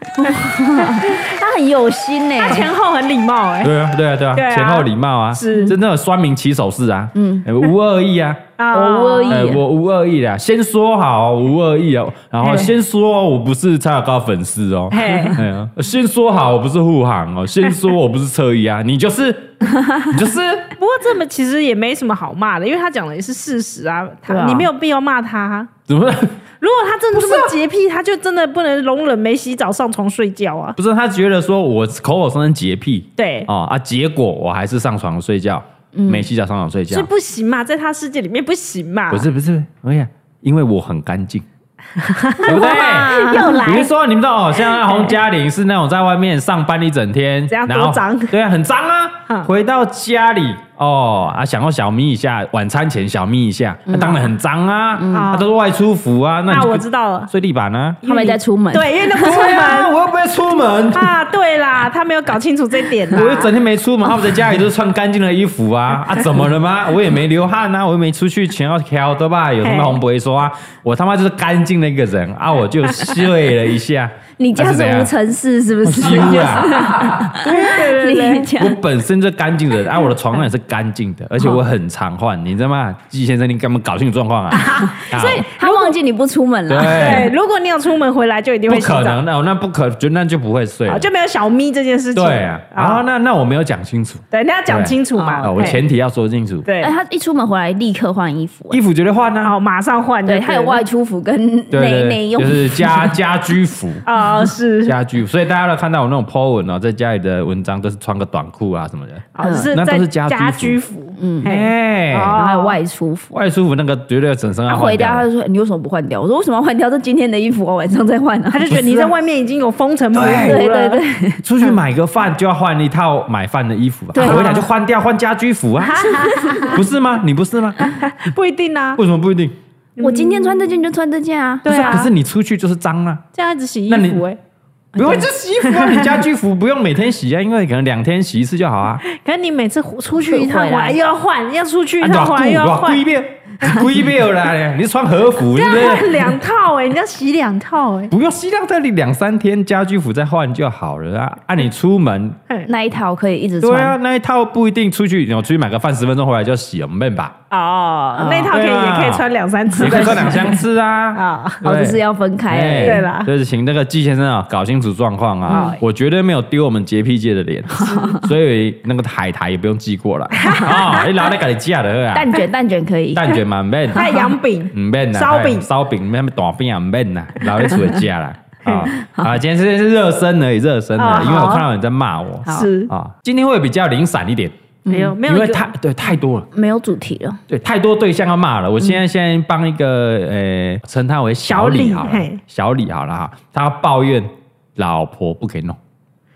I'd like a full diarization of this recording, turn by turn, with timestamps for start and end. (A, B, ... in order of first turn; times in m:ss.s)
0:00.2-0:02.7 A
0:00.9-0:01.3 B
0:02.4-0:03.7 B
0:03.6-0:08.4 C
0:04.3-0:05.7 B
0:07.1-0:07.4 A
0:08.6-0:09.5 B
0:08.7-0:09.6 A
0:09.3-0:20.7 C
0:12.4-0:12.7 B
0:14.9-0:15.4 B
0:20.8-0:25.7 B
0:24.3-0:24.7 A
0:25.9-0:26.4 C
0:26.6-0:30.8 B
0:27.1-0:27.5 C
0:30.8-0:37.1 C
0:33.2-0:33.5 B
0:35.9-0:36.3 A
0:36.9-0:39.3 B
0:39.1-0:41.4 C
0:42.0-0:43.9 B
0:42.4-0:43.6 A
0:42.4-0:58.0 C
0:44.7-0:45.1 B
0:47.5-0:48.3 B
0:53.9-0:54.3 A
0:55.0-0:55.3 A
0:55.1-0:55.5 B
0:56.5-0:57.3 B
0:58.0-0:59.9 B
0:58.0-0:59.3 A
0:59.2-1:01.1 C
1:00.9-1:03.5 B
1:03.1-1:15.1 C
1:09.6-1:10.0 B
1:14.4-1:18.8 A
1:15.8-1:17.7 C
1:16.0-1:16.6 B
1:17.4-1:18.5 B
1:18.6-1:25.5 C
1:24.5-1:26.0 B
1:25.5-1:27.3 A
1:26.7-1:27.3 C
1:26.8-1:29.2 B
1:28.7-1:31.1 C
1:30.9-1:33.0 B
1:32.1-1:36.6 C
1:34.3-1:35.8 B
1:35.1-1:35.8 A
1:36.6-1:36.9 B
1:36.8-1:38.8 A
1:38.7-1:39.5 C
1:39.4-1:40.8 B
1:40.2-1:43.1 A
1:41.7-1:44.0 C
1:44.0-1:45.0 B
1:44.8-1:50.8 C
1:49.3-1:52.8 B
1:49.4-1:49.7 A
1:51.2-1:51.5 A
1:51.4-1:52.4 C
1:52.3-1:53.3 A
1:53.3-1:55.2 C
1:54.7-1:58.8 A
1:58.5-2:01.0 B
1:58.6-1:59.1 C
2:00.1-2:00.6 C
2:00.2-2:01.4 A
2:01.4-2:08.0 C
2:04.1-2:04.6 A
2:04.2-2:04.6 B
2:05.8-2:06.8 B
2:06.1-2:06.8 A
2:07.8-2:09.0 B
2:08.9-2:09.5 C
2:10.0-2:10.6 B
2:10.0-2:12.0 A
2:11.6-2:12.1 B
2:11.7-2:13.2 C
2:13.3-2:14.4 B
2:13.9-2:14.3 C
2:14.9-2:19.0 C
2:15.0-2:15.2 A
2:15.6-2:16.2 B
2:19.0-2:23.0 B
2:20.2-2:21.0 A
2:22.0-2:26.2 C
2:25.4-2:28.1 B
2:28.1-2:32.4 C
2:32.6-2:34.0 A
2:33.6-2:37.3 C
2:37.5-2:40.6 B
2:38.1-2:38.5 A
2:38.5-2:39.2 C
2:39.8-2:52.3 C
2:39.8-2:40.2 A
2:41.1-2:41.6 B
2:41.6-2:43.1 A
2:42.8-2:43.3 B
2:45.5-2:45.8 A
2:45.5-2:45.8 B
2:47.8-2:48.2 B
2:47.8-2:48.2 A
2:50.4-2:51.1 B
2:52.1-2:53.4 A
2:53.1-2:54.0 C
2:53.9-2:55.7 B
2:54.7-3:04.5 C
3:01.0-3:01.7 B
3:01.2-3:01.5 A
3:02.5-3:02.9 B
3:04.8-3:05.2 A
3:04.9-3:05.7 B
3:05.2-3:06.5 C
3:06.5-3:07.4 A
3:07.5-3:15.8 C
3:11.4-3:12.4 B